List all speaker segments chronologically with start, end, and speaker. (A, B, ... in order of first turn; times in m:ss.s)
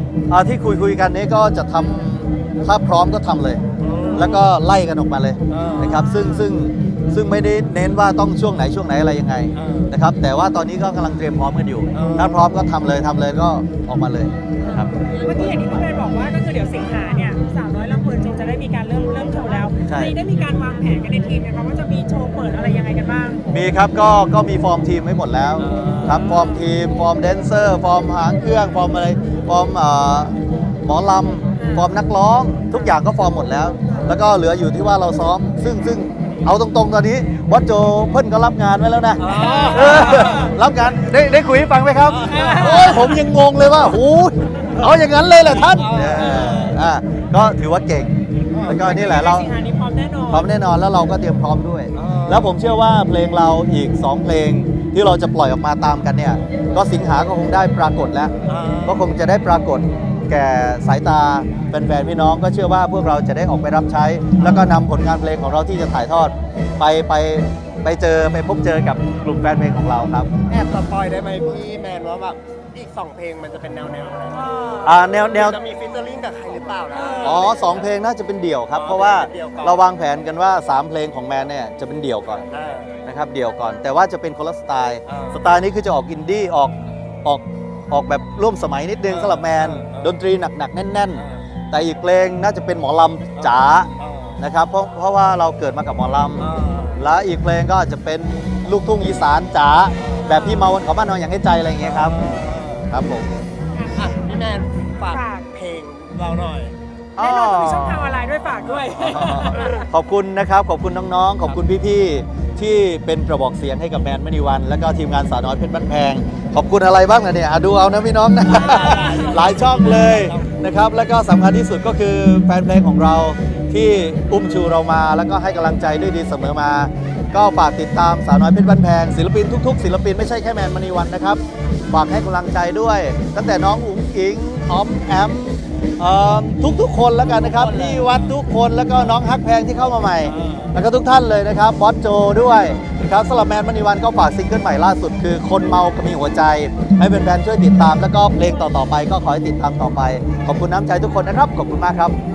0:00.3-0:03.6 A
0:03.8-0:04.5 B
0:04.2-0:14.9 A
0:05.5-0:06.0 B
0:05.8-0:06.5 C
0:09.5-0:09.9 B
0:11.9-0:12.5 B
0:14.6-0:23.5 C
0:19.9-0:20.2 A
0:23.5-0:48.1 A
0:25.6-0:26.3 B
0:25.9-0:26.6 C
0:31.6-0:31.9 C
0:39.2-0:40.5 B
0:39.2-0:40.6 C
0:42.0-0:43.2 B
0:42.3-0:43.2 C
0:44.8-0:46.6 B
0:46.1-0:46.8 C
0:48.5-0:48.8 B
0:48.6-0:49.5 A
0:48.7-0:50.5 C
0:50.3-0:58.3 A
0:51.9-0:52.5 B
0:58.5-0:59.0 B
0:58.8-1:10.3 A
1:04.4-1:04.7 B
1:10.5-1:17.9 B
1:14.3-1:15.0 C
1:14.8-1:15.6 A
1:16.9-1:17.4 C
1:17.2-1:22.5 A
1:18.7-1:19.9 B
1:22.5-1:23.0 B
1:23.1-1:42.2 A
1:25.1-1:25.4 B
1:29.1-1:30.1 B
1:31.2-1:31.5 B
1:33.4-1:34.4 B
1:36.4-1:37.0 B
1:40.0-1:40.4 B
1:40.2-1:40.8 C
1:41.8-1:42.9 B
1:42.9-1:43.3 A
1:43.8-1:44.2 C
1:43.9-1:46.8 B
1:45.1-1:45.4 C
1:47.2-1:48.1 A
1:47.2-1:49.9 C
1:48.6-1:49.2 B
1:49.0-2:32.2 A
1:58.5-2:00.0 C
1:58.5-2:00.6 B
2:17.2-2:18.4 B
2:20.2-2:20.8 B